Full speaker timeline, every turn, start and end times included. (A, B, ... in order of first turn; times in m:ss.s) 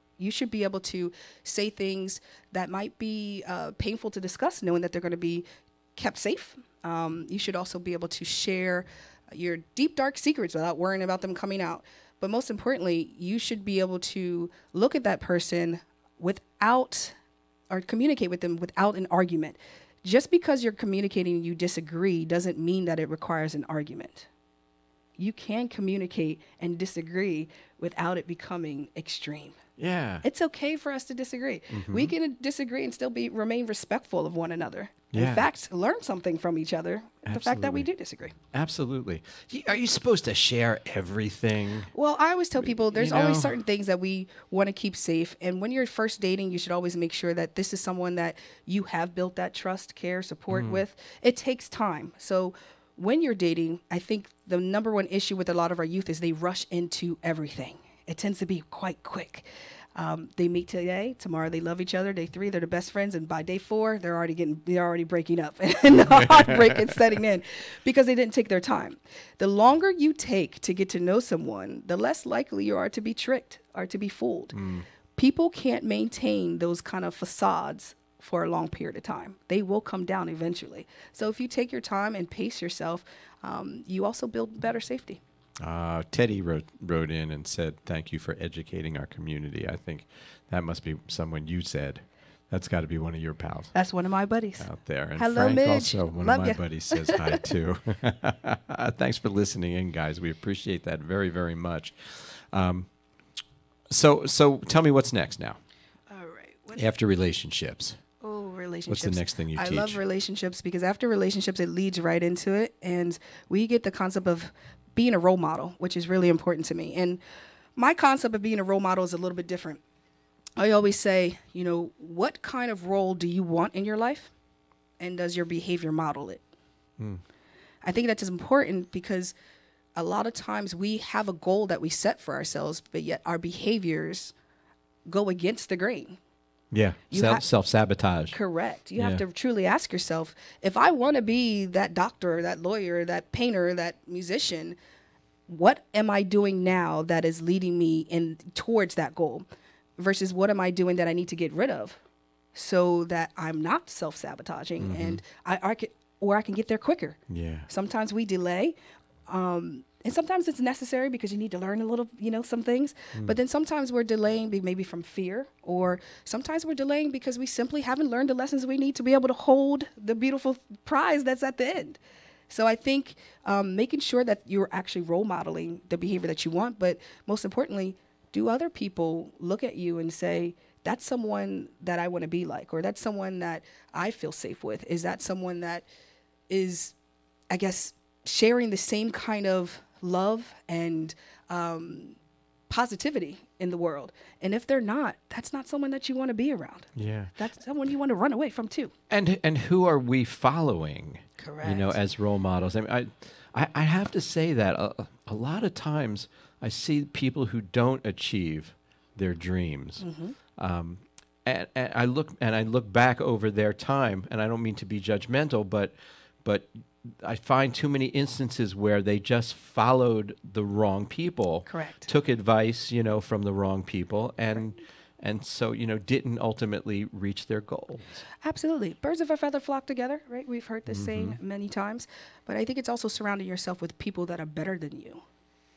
0:00.2-0:05.4 A
0:06.0-0:17.1 A
0:17.7-0:24.3 A
0:25.2-0:29.6 A
0:29.8-0:30.2 B
0:30.2-0:38.3 A
0:31.7-0:32.1 B
0:35.1-0:35.4 B
0:37.2-0:37.9 B
0:38.5-0:41.9 B
0:41.9-1:14.6 A
0:42.6-0:43.5 B
0:50.5-0:50.8 B
1:05.9-1:06.9 B
1:14.5-1:14.8 B
1:15.1-1:25.2 A
1:25.6-1:33.7 B
1:33.7-1:37.5 A
1:34.6-1:42.9 B
1:43.9-1:45.6 B
1:46.1-1:46.8 A
1:46.8-1:48.0 B
1:48.2-1:57.2 A
1:48.9-1:50.0 B
1:57.8-1:59.8 A
2:00.6-2:04.3 A
2:05.0-2:06.4 A
2:07.8-2:09.3 A
2:09.9-2:14.3 A
2:15.1-2:16.2 A
2:16.7-2:18.4 B
2:17.1-2:17.4 A
2:18.3-2:24.8 A
2:19.0-2:19.2 B
2:25.5-2:29.4 A
2:30.0-2:32.0 A
2:32.5-2:38.7 A
2:34.8-2:35.2 B
2:37.3-2:37.7 B
2:39.3-3:05.8 A
3:06.5-3:06.9 A
3:07.5-3:12.2 A
3:12.7-3:18.9 A
3:17.0-3:17.3 B
3:19.1-3:30.0 B
3:21.4-3:22.0 A
3:30.0-3:30.3 A
3:30.6-3:48.2 B
3:41.6-3:42.1 A
3:48.4-3:55.2 A
3:50.9-3:51.4 B